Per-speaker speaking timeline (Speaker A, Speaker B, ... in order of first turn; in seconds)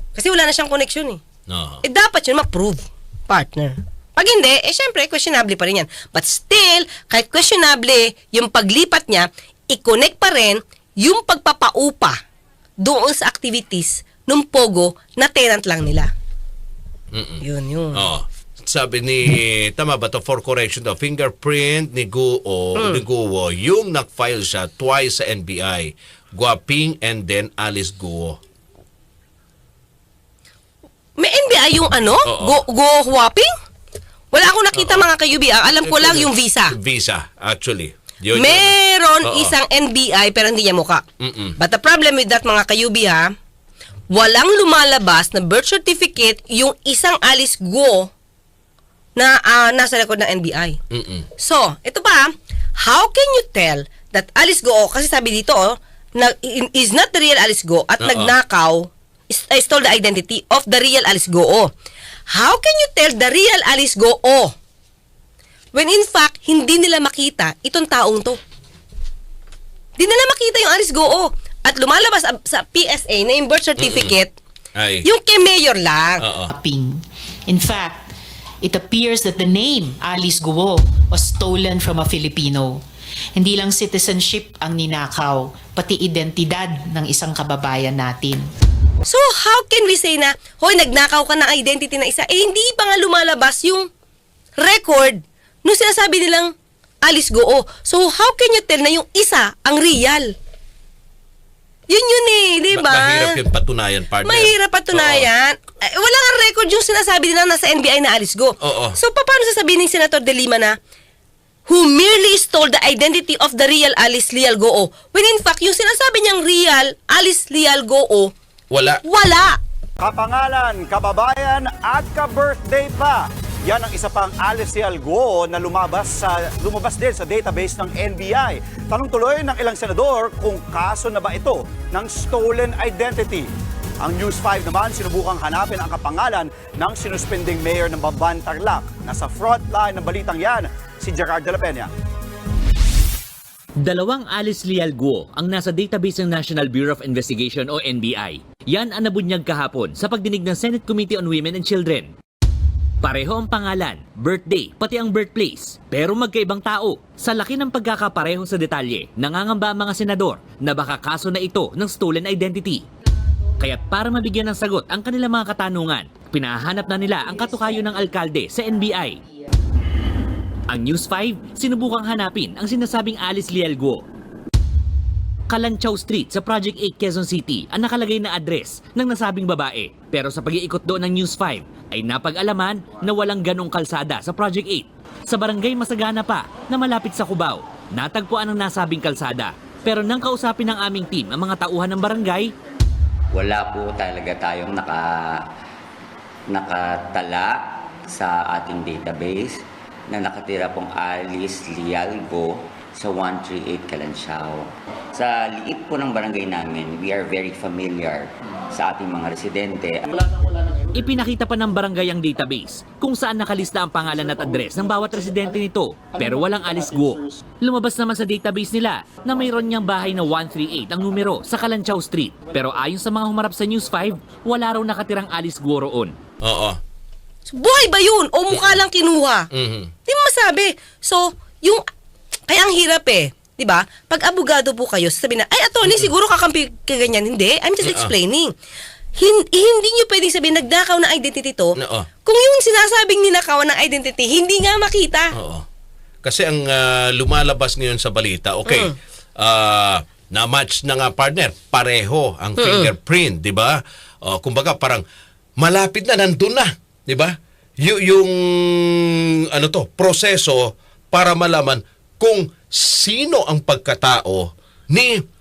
Speaker A: 0.1-1.2, 1.8-12.2, 12.8-16.1, 17.4-18.1, 22.8-23.0, 31.2-33.5, 34.3-36.7, 38.3-41.0, 41.6-43.2, 44.1-48.1, 49.1-50.8, 51.4-52.2, 52.8-61.7, 62.3-64.5, 65.7-68.4, 70.0-74.3, 75.0-76.2, 89.1-93.9, 94.6-96.5, 97.0-100.3, 101.9-103.4, 104.2-110.7, 111.7-118.3, 119.0-119.6, 227.5-229.5, 230.1-231.8, 232.5-238.5, 239.2-245.3, 248.7-248.9, 252.6-252.9
Speaker B: 1.5-1.8, 17.1-28.4, 32.2-32.6, 34.8-35.0, 35.8-39.5, 41.2-41.6, 50.9-51.3, 58.0-58.3, 73.8-74.2, 74.8-75.1, 76.2-76.5, 102.7-105.3, 108.6-109.0, 118.7-119.0, 226.4-226.8, 228.5-228.8, 229.5-229.9, 237.8-238.1, 241.8-242.1, 245.3-245.6, 246.2-255.0, 255.6-265.2
Speaker C: 76.5-78.1, 78.6-82.8, 83.3-88.5, 167.2-169.5
Speaker D: 120.0-133.5, 134.0-141.9
Speaker E: 143.8-152.1, 153.0-162.8, 163.6-169.2, 170.7-174.0, 175.5-192.5, 210.9-226.2
Speaker F: 193.3-195.4, 196.5-210.1